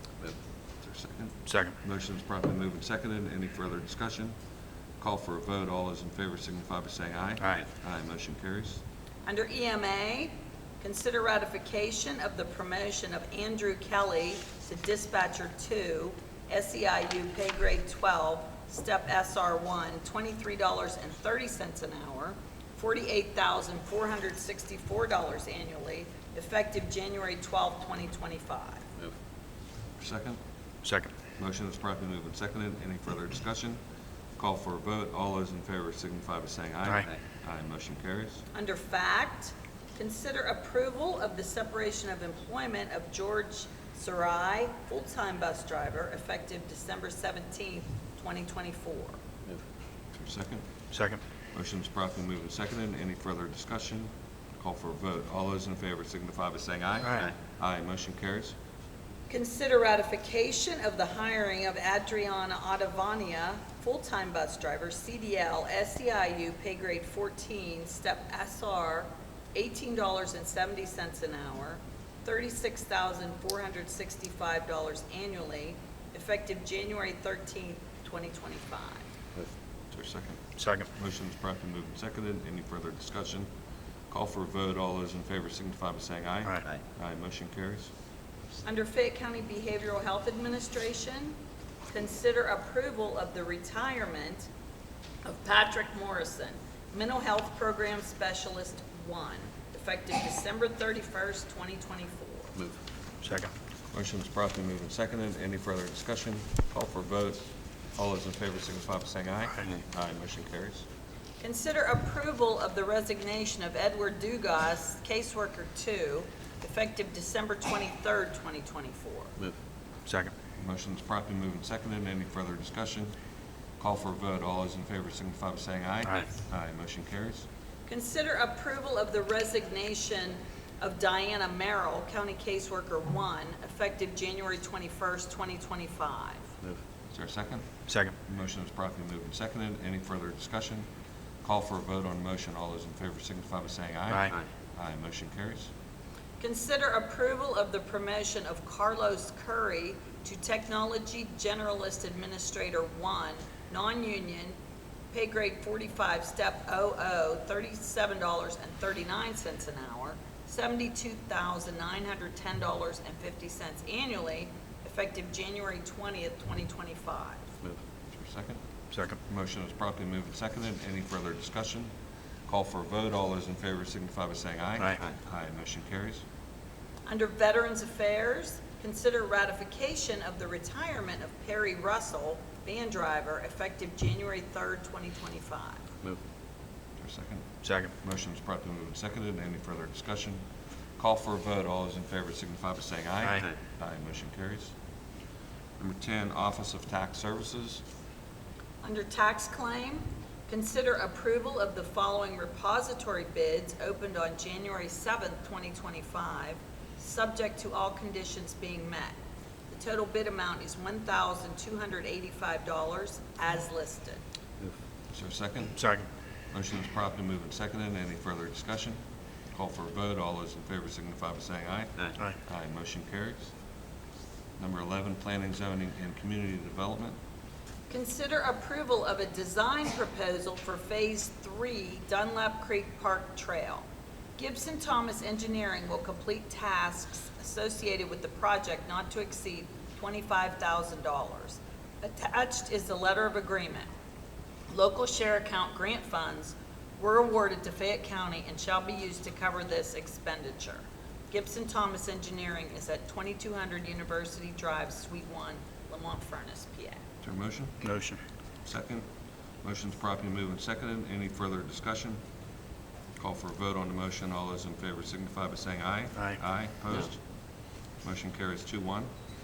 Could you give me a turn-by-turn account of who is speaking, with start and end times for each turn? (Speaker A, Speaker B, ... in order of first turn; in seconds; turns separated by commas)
Speaker A: 0.8-4.3, Speaker B: 1.5-1.8, Speaker A: 5.0-8.8, Speaker C: 9.3-28.9, Speaker A: 30.0-30.4, Speaker B: 30.8-31.1, Speaker A: 31.4-33.8, Speaker A: 34.4-38.4, Speaker C: 38.5-49.2, Speaker A: 50.2-50.6, Speaker B: 50.9-51.2, Speaker A: 51.5-58.5, Speaker C: 59.3-79.0, Speaker A: 79.9-83.5, Speaker B: 80.6-80.9, Speaker A: 84.1-87.9, Speaker C: 88.7-91.4, Speaker C: 91.9-94.5, Speaker C: 95.2-102.5, Speaker B: 103.2-103.5, Speaker A: 103.9-110.8, Speaker C: 111.4-119.3, Speaker B: 120.1-120.3, Speaker A: 120.6-123.1, Speaker A: 123.8-127.5, Speaker C: 127.9-136.5, Speaker A: 137.1-140.8, Speaker B: 137.9-138.1, Speaker A: 141.4-145.7, Speaker B: 144.1-144.3, Speaker C: 146.4-154.6, Speaker C: 155.1-167.5, Speaker A: 168.1-168.6, Speaker B: 168.9-169.2, Speaker A: 169.3-171.9, Speaker A: 172.5-176.2, Speaker C: 177.1-185.8, Speaker A: 187.0-190.4, Speaker B: 187.6-187.9, Speaker A: 191.0-194.7, Speaker A: 195.8-197.8, Speaker C: 198.8-209.2, Speaker C: 209.7-214.2, Speaker A: 215.1-215.9, Speaker B: 215.8-216.1, Speaker A: 216.5-219.0, Speaker A: 219.5-223.5, Speaker A: 224.6-227.2, Speaker C: 227.9-243.9, Speaker C: 244.7-257.0, Speaker A: 257.2-257.9, Speaker B: 257.8-258.2, Speaker A: 258.6-259.1, Speaker A: 259.6-262.2, Speaker A: 263.2-267.2, Speaker A: 268.0-269.1